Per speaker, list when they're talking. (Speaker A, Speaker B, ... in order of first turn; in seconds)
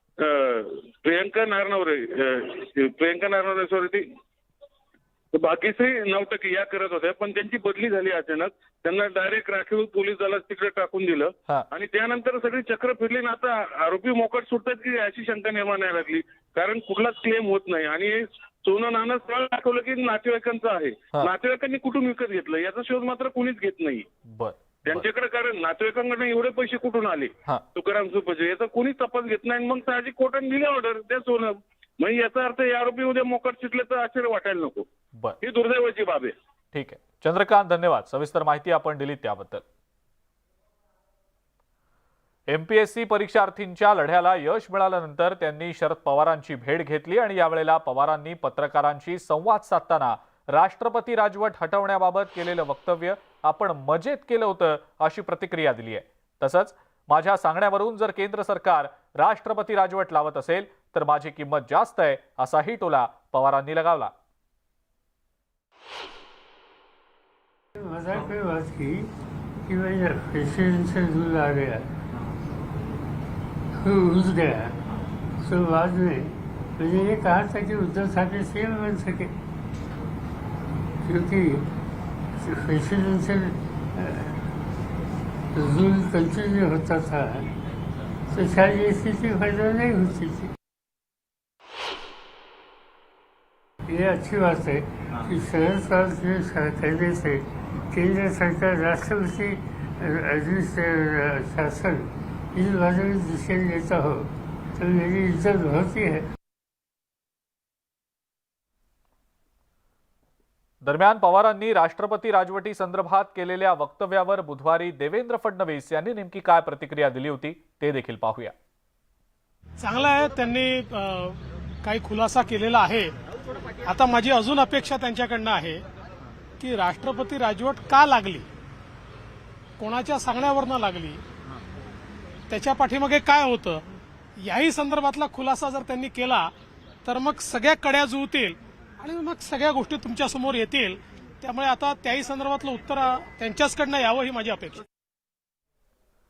Speaker A: 0.2-4.0, 5.3-24.0, 24.9-34.9, 35.4-36.3
Speaker B: 24.3-25.1, 36.7-39.6, 42.5-64.1, 110.8-118.5
Speaker C: 67.8-69.1, 69.7-71.9, 73.8-74.7, 75.4-79.3, 81.0-81.7, 82.4-84.5, 85.5-87.5, 88.3-90.5, 93.9-106.2
Speaker D: 119.8-121.3, 121.8-123.1, 123.9-125.8, 126.6-128.4, 129.8-131.2, 132.5-133.8, 134.4-136.5, 137.1-144.8